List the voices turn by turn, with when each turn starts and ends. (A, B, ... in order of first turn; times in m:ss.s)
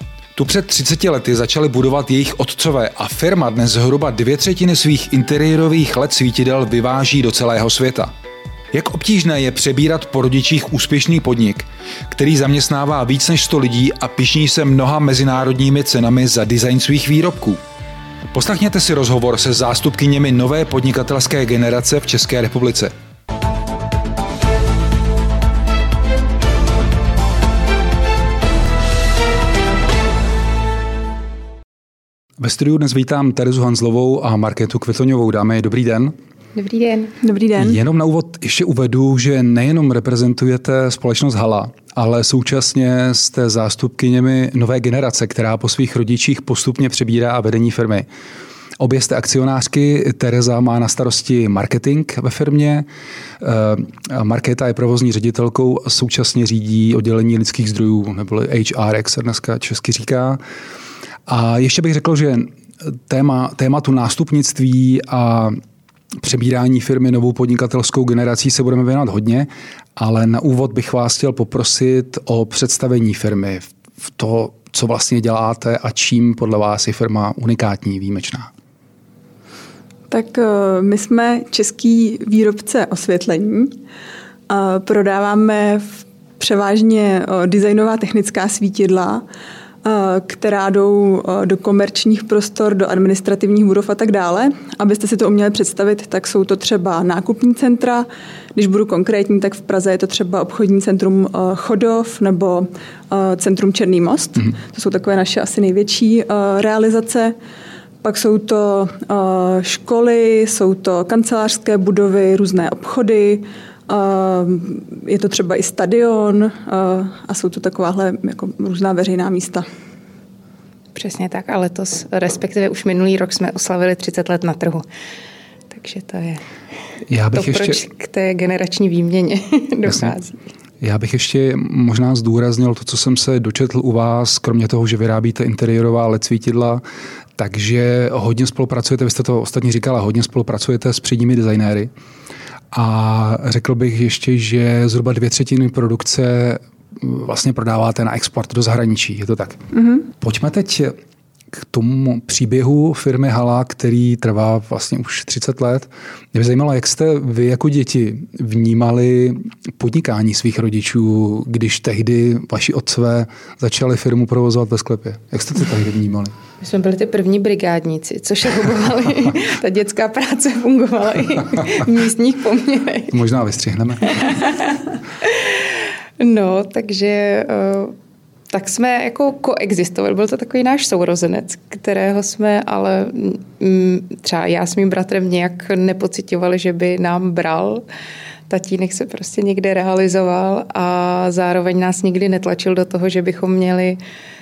0:00.4-0:08.1 A
0:08.7-0:17.6 A
0:18.3-0:22.9 A
0:32.4-0:36.1 A
0:36.5-0:37.1 B
0:37.2-0:37.8 C
0:37.6-0:48.0 A
0:48.8-0:52.8 A
0:53.4-1:00.4 A
1:01.3-1:05.6 A
1:06.2-1:18.5 A
1:20.1-1:23.8 C
1:24.5-1:29.2 C
1:29.8-1:47.3 C
1:48.0-1:59.6 C
2:00.9-2:04.8 B
2:05.7-2:06.4 B
2:07.1-2:07.8 A
2:07.3-2:10.4 B
2:09.8-2:10.1 A
2:10.8-2:16.8 A
2:17.4-2:21.9 A
2:22.7-2:29.6 A
2:29.7-2:30.0 C
2:30.2-2:30.9 A
2:31.5-2:46.3 A
2:46.6-2:53.1 B
2:53.1-2:54.5 A
2:54.2-2:54.6 B
2:55.2-2:57.9 B
2:58.5-3:07.8 B
3:08.5-3:14.0 B